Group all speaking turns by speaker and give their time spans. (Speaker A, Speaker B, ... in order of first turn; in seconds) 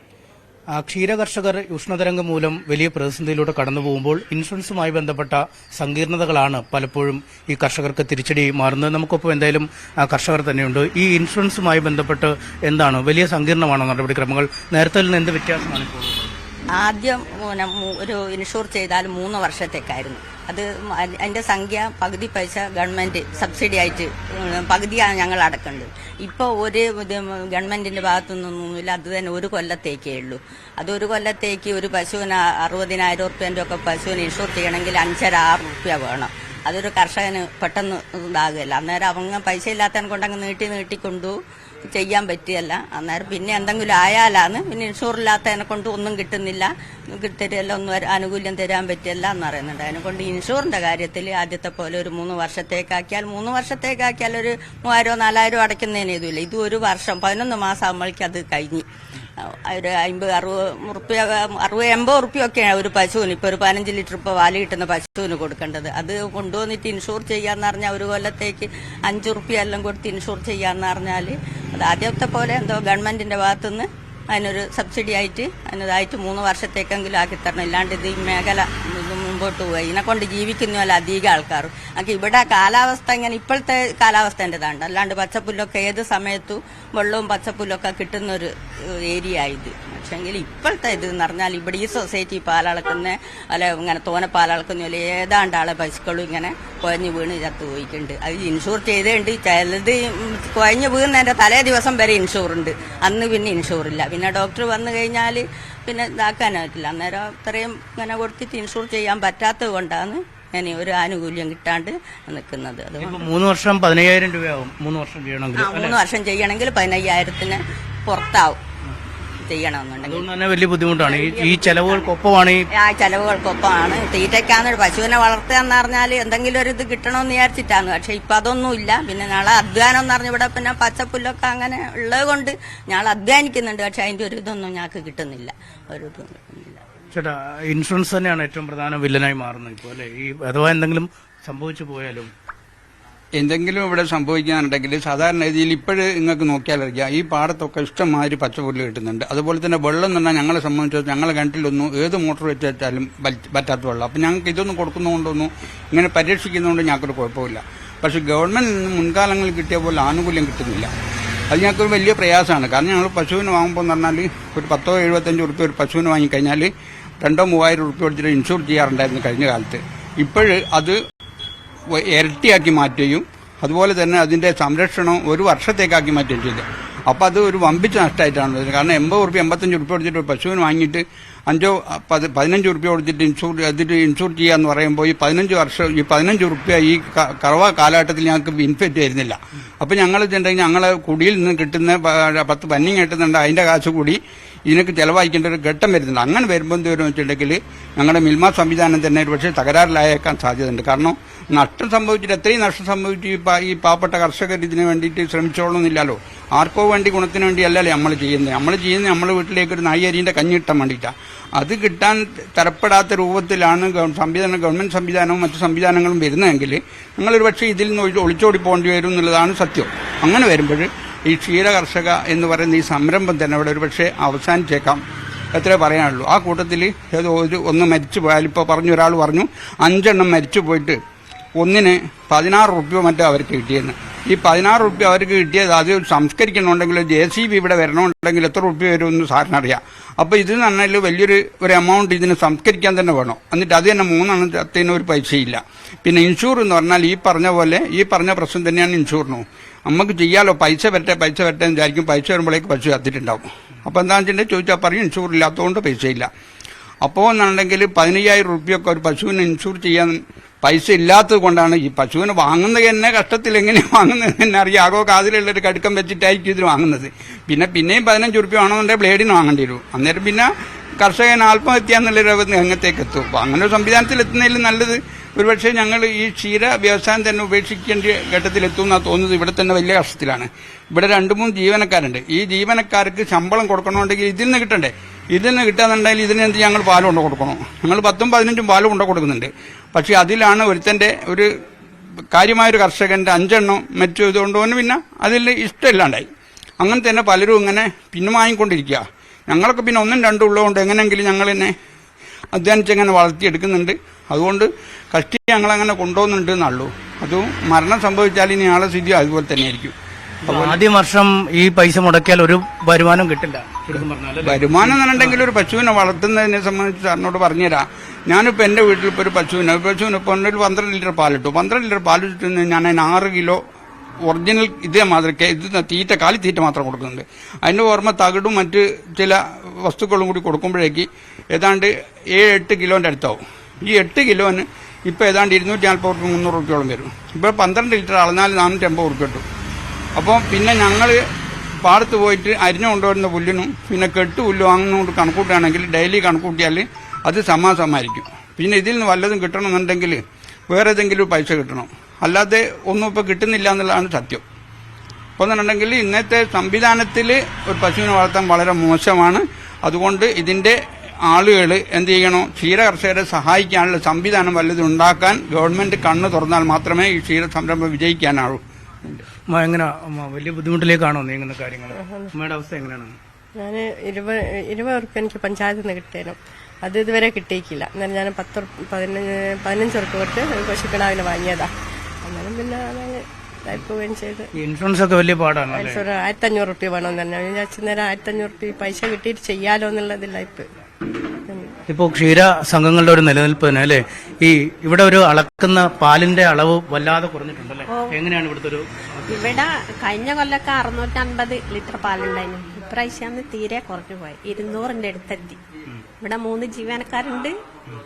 Speaker A: 0.7-16.3, 113.0-116.0, 120.0-122.7, 137.1-142.3, 310.4-315.4, 369.1-373.1, 384.6-386.0, 391.9-398.9
Speaker B: 16.8-58.9, 59.4-113.3, 115.5-118.6, 119.4-120.3, 121.1-122.1, 122.7-136.8
Speaker C: 143.4-160.9, 161.5-171.0, 171.9-225.0, 225.5-231.0, 231.6-256.3, 257.0-291.5, 292.3-296.3, 296.8-301.7, 302.5-309.9, 310.4-310.8, 314.4-323.6, 324.2-339.4, 340.2-341.2, 341.8-354.4, 355.4-368.6
Speaker D: 371.9-372.3, 373.6-381.7, 382.2-384.5, 385.7-390.7, 391.4-391.7
Speaker E: 397.9-398.2, 399.3-405.6, 406.2-407.5